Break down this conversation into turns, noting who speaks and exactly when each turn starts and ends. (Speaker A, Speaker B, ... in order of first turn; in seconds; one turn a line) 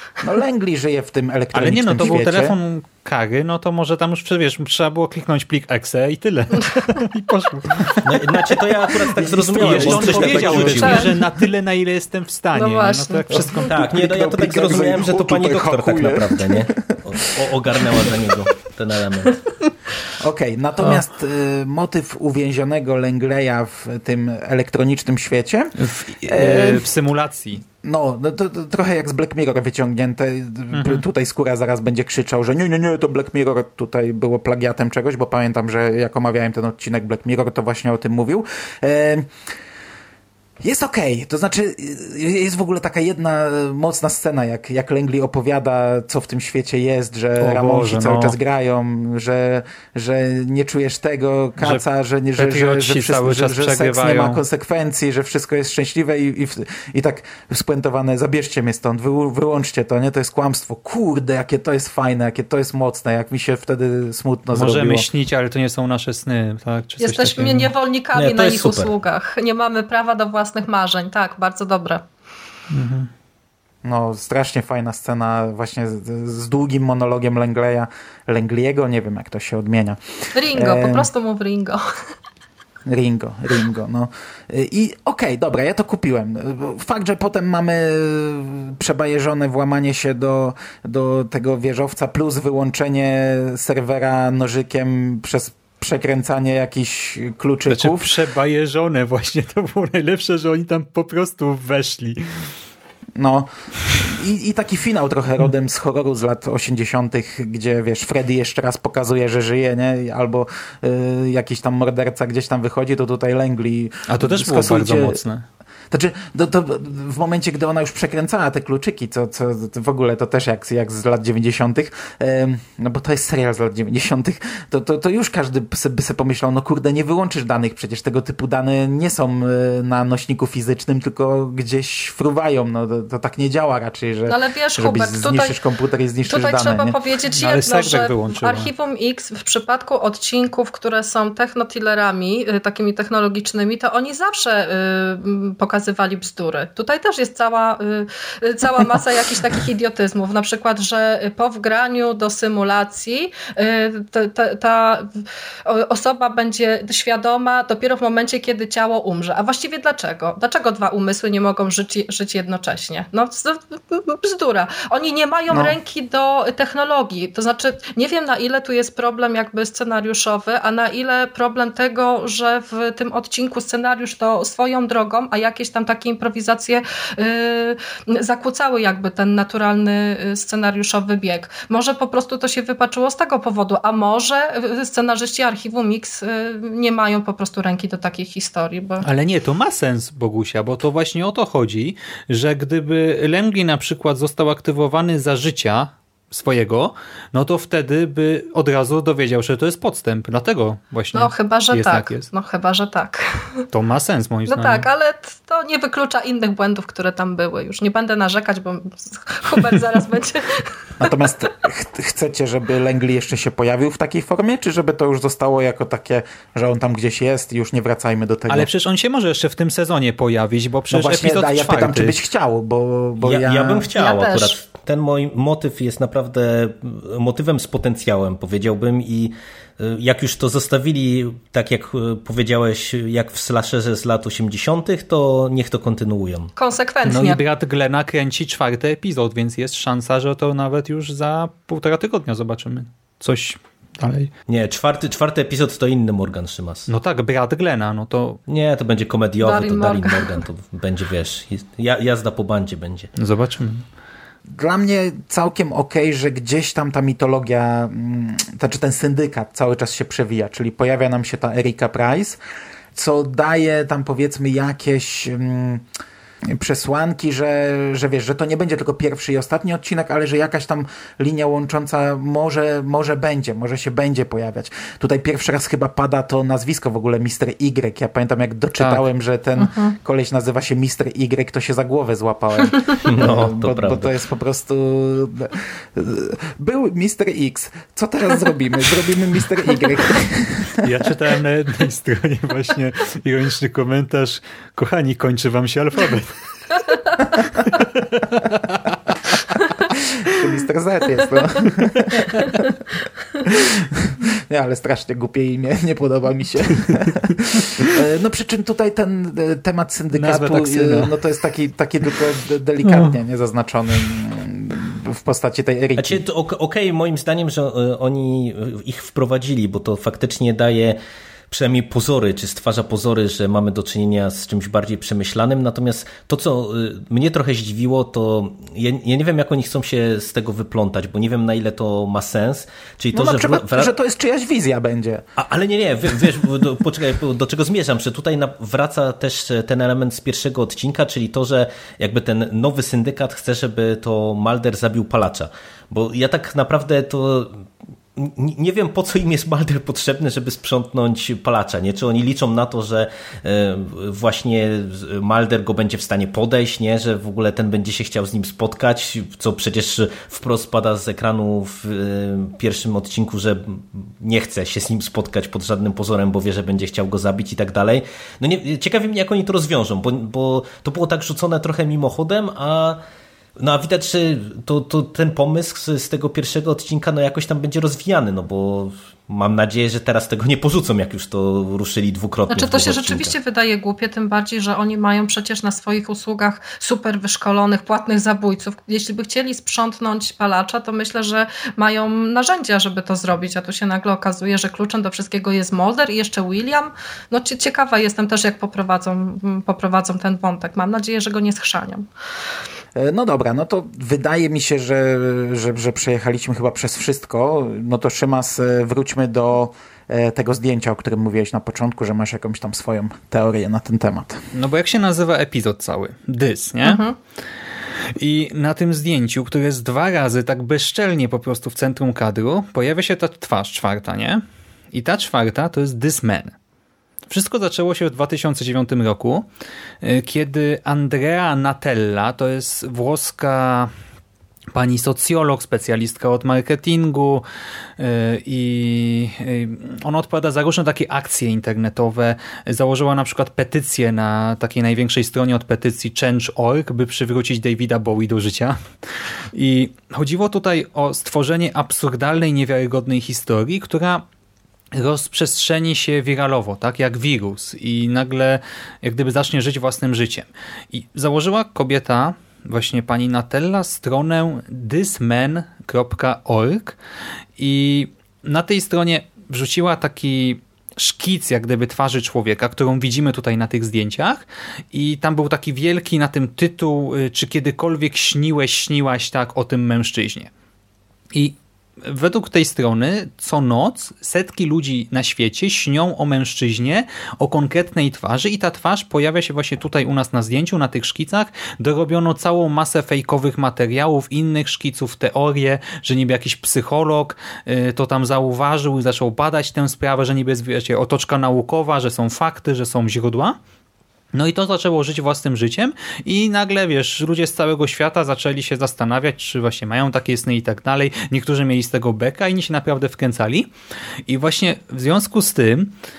Speaker A: 0.2-2.5
Speaker B: 1.5-8.0
Speaker C: 8.0-11.1
Speaker A: 9.1-11.3
Speaker B: 9.6-13.7
Speaker D: 10.8-11.1
Speaker D: 12.5-13.3
Speaker A: 13.3-18.2
Speaker C: 13.6-19.4
Speaker A: 20.2-26.9
Speaker B: 25.8-27.6
Speaker A: 27.8-39.3
Speaker B: 30.7-31.0
Speaker A: 40.6-65.1
Speaker B: 47.4-48.4
Speaker B: 52.4-54.4
Speaker B: 64.5-67.7
Speaker D: 67.0-72.1
Speaker C: 68.2-68.9
Speaker B: 72.7-73.1
Speaker A: 73.8-81.1
Speaker D: 80.3-81.8
Speaker A: 82.9-98.1
Speaker B: 97.7-102.5
Speaker A: 103.2-115.2
Speaker B: 114.1-115.5
Speaker A: 115.9-137.0
Speaker D: 134.3-135.6
Speaker D: 136.2-189.1
Speaker B: 137.3-138.7
Speaker A: 165.5-165.8
Speaker B: 189.0-202.3
Speaker D: 201.1-203.6
Speaker B: 203.7-204.8
Speaker D: 204.5-210.7
Speaker A: 211.0-218.7
Speaker B: 218.5-222.2
Speaker A: 220.9-223.9
Speaker C: 223.2-236.5
Speaker D: 223.9-224.5
Speaker D: 236.6-237.4
Speaker B: 237.1-244.3
Speaker C: 244.5-246.9
Speaker B: 246.9-248.4
Speaker C: 248.5-253.1
Speaker D: 249.4-250.4
Speaker B: 253.2-253.8
Speaker A: 254.5-262.4
Speaker A: 262.9-265.9
Speaker A: 266.5-290.9
Speaker B: 278.8-279.0
Speaker D: 279.6-279.9
Speaker C: 283.1-284.1
Speaker B: 290.8-296.4
Speaker B: 297.7-299.1
Speaker A: 299.9-302.7
Speaker A: 303.4-316.2
Speaker B: 310.1-311.1
Speaker B: 312.9-313.1
Speaker C: 316.0-321.0
Speaker C: 321.5-333.9
Speaker A: 333.1-335.3
Speaker C: 335.4-347.6
Speaker C: 348.2-373.0
Speaker C: 373.6-383.4
Speaker D: 382.5-402.1
Speaker A: 402.9-414.4
Speaker B: 414.5-417.0
Speaker D: 416.8-417.2
Speaker B: 418.2-424.4
Speaker B: 424.9-426.5
Speaker B: 427.3-429.5
Speaker B: 430.0-433.9
Speaker B: 434.7-437.4
Speaker B: 438.0-448.8
Speaker B: 449.5-454.2
Speaker B: 454.9-467.0
Speaker B: 467.6-480.5
Speaker B: 481.3-503.6
Speaker B: 504.3-513.7
Speaker B: 514.3-515.9